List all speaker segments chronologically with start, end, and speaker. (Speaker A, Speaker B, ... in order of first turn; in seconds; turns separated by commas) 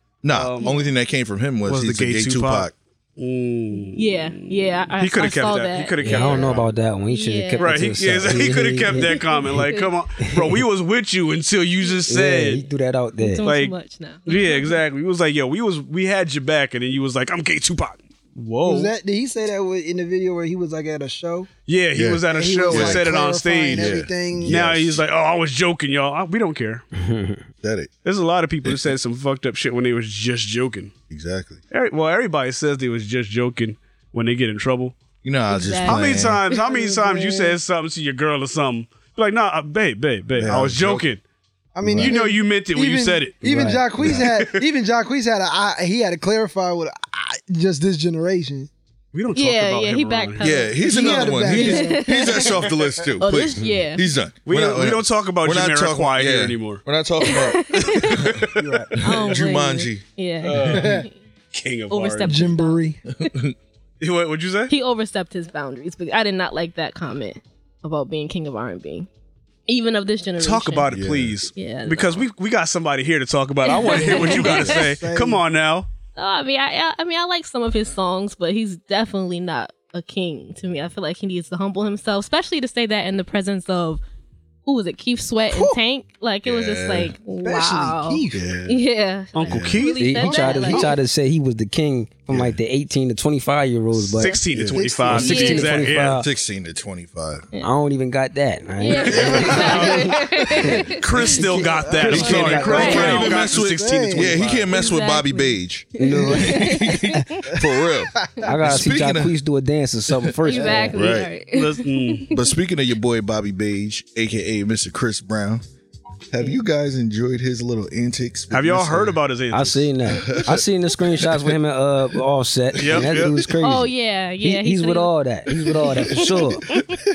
Speaker A: 0.2-2.7, Speaker B: 0.3-0.8, Speaker B: 1.7-6.7, Speaker C: 4.0-7.8, Speaker D: 6.0-9.2, Speaker B: 7.6-12.6, Speaker C: 8.9-9.9, Speaker D: 10.2-10.6, Speaker D: 12.1-13.5, Speaker C: 13.2-14.8, Speaker B: 13.4-13.7, Speaker B: 14.3-18.9, Speaker E: 18.6-21.5, Speaker B: 21.7-26.9, Speaker A: 21.9-23.1, Speaker E: 22.3-24.6, Speaker A: 23.7-25.0, Speaker D: 26.9-27.4, Speaker A: 27.6-27.9, Speaker B: 28.1-30.9, Speaker A: 31.1-31.6, Speaker B: 31.7-35.0, Speaker A: 35.2-36.4, Speaker C: 35.5-37.5, Speaker B: 35.9-41.2, Speaker E: 36.7-37.4, Speaker A: 40.4-41.1, Speaker E: 41.8-48.7, Speaker A: 41.8-42.1, Speaker B: 42.0-43.4, Speaker D: 43.4-44.1, Speaker B: 44.1-44.6, Speaker B: 49.1-50.6, Speaker C: 49.4-54.0, Speaker A: 50.4-60.0, Speaker E: 50.8-52.5, Speaker B: 54.5-56.8, Speaker C: 57.2-58.1, Speaker B: 58.0-58.6, Speaker E: 58.6-59.0, Speaker C: 59.0-61.1, Speaker B: 60.4-62.5, Speaker E: 60.7-61.1, Speaker C: 61.9-62.8, Speaker E: 62.2-63.0, Speaker A: 63.2-63.5, Speaker B: 64.0-64.7, Speaker C: 64.7-69.1, Speaker C: 69.7-70.9, Speaker B: 70.4-75.9, Speaker A: 70.9-71.4, Speaker C: 71.5-72.2, Speaker C: 73.7-74.6, Speaker E: 73.9-75.4, Speaker C: 76.2-84.0, Speaker C: 84.7-91.0, Speaker E: 85.5-85.8, Speaker A: 86.5-87.2, Speaker E: 87.4-88.4, Speaker A: 88.3-88.8, Speaker B: 89.3-90.2, Speaker A: 89.5-89.8, Speaker D: 90.0-94.4, Speaker E: 90.2-91.0, Speaker A: 92.3-92.6, Speaker B: 94.1-96.2, Speaker A: 94.5-95.0, Speaker E: 94.7-95.8, Speaker C: 95.1-95.7, Speaker D: 95.2-96.3, Speaker A: 96.1-97.5, Speaker D: 97.6-100.2, Speaker C: 98.8-101.0, Speaker E: 99.1-104.6, Speaker A: 99.1-99.9, Speaker B: 99.6-99.9, Speaker B: 101.0-104.7, Speaker A: 102.1-109.3, Speaker D: 102.2-103.1, Speaker C: 102.6-103.3, Speaker C: 104.7-107.4, Speaker D: 106.0-106.9, Speaker E: 106.2-106.6, Speaker E: 108.2-108.5, Speaker D: 108.5-111.0, Speaker C: 110.4-112.4, Speaker E: 110.5-110.9, Speaker A: 110.9-111.3, Speaker B: 111.5-112.3, Speaker A: 112.3-115.6, Speaker A: 116.3-119.2, Speaker B: 118.5-119.9, Speaker D: 119.5-126.7, Speaker A: 120.2-120.6, Speaker A: 122.8-123.5, Speaker B: 122.8-123.3, Speaker C: 123.6-125.1